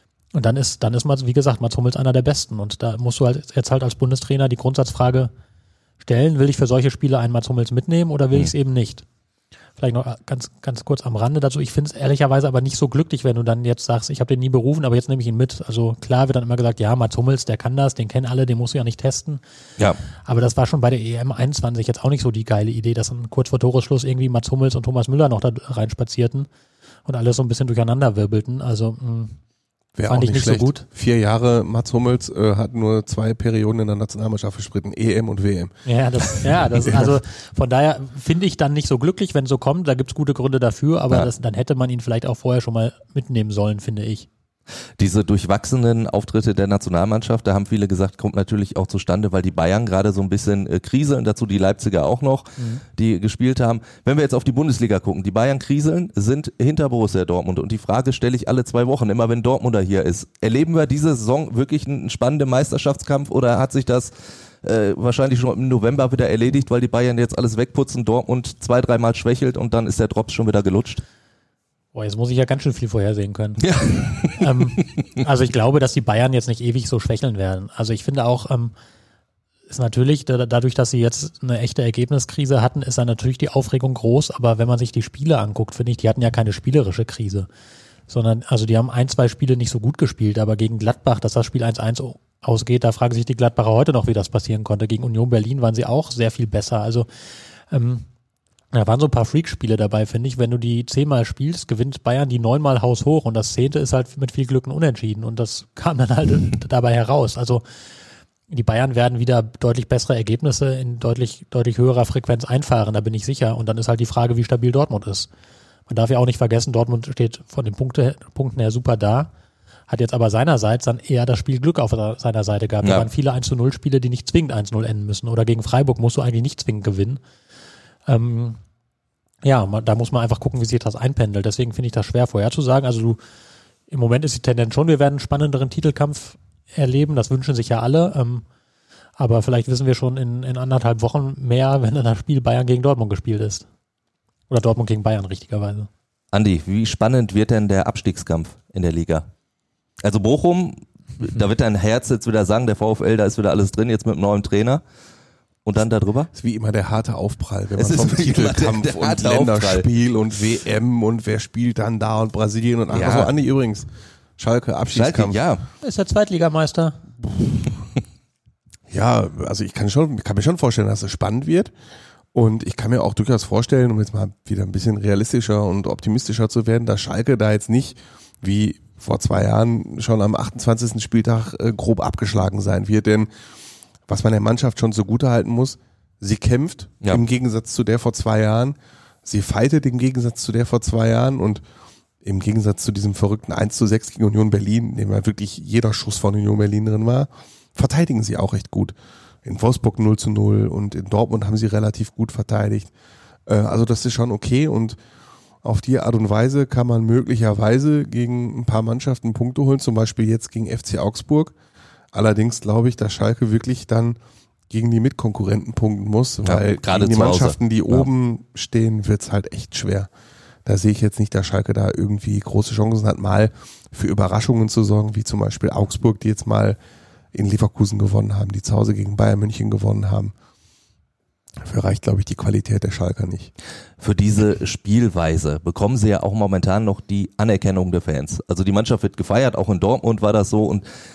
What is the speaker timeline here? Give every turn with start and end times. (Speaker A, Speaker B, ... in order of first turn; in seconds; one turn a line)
Speaker A: 0.3-5.3
Speaker A: 6.0-9.0
Speaker A: 9.8-19.4
Speaker A: 20.2-26.5
Speaker A: 27.0-29.4
Speaker B: 29.9-37.1
Speaker A: 30.1-30.8
Speaker A: 35.9-44.3
Speaker C: 45.0-64.1
Speaker C: 64.6-71.0
Speaker A: 71.9-73.6
Speaker C: 73.6-75.0
Speaker A: 74.4-78.7
Speaker A: 79.7-87.5
Speaker A: 88.1-97.1
Speaker A: 97.7-98.0
Speaker A: 98.7-107.6
Speaker A: 108.5-115.3
Speaker A: 115.9-119.3
Speaker A: 119.9-127.2
Speaker C: 122.8-123.1
Speaker A: 128.1-128.6
Speaker A: 129.4-133.2
Speaker A: 133.9-138.4
Speaker A: 139.2-143.7
Speaker A: 144.5-145.9
Speaker C: 146.3-149.2
Speaker C: 150.0-154.8
Speaker C: 155.6-156.3
Speaker B: 156.3-163.9
Speaker C: 157.8-159.9
Speaker C: 162.9-163.3
Speaker B: 164.4-165.4
Speaker C: 164.9-165.7
Speaker A: 165.8-167.0
Speaker B: 168.9-171.7
Speaker B: 172.3-183.3
Speaker B: 184.1-191.6
Speaker B: 192.2-202.9
Speaker B: 203.5-205.0
Speaker B: 205.6-211.5
Speaker B: 212.1-214.2
Speaker B: 214.7-220.1
Speaker C: 216.4-218.1
Speaker B: 220.6-226.8
Speaker B: 227.3-230.3
Speaker B: 231.6-233.5
Speaker C: 234.0-240.8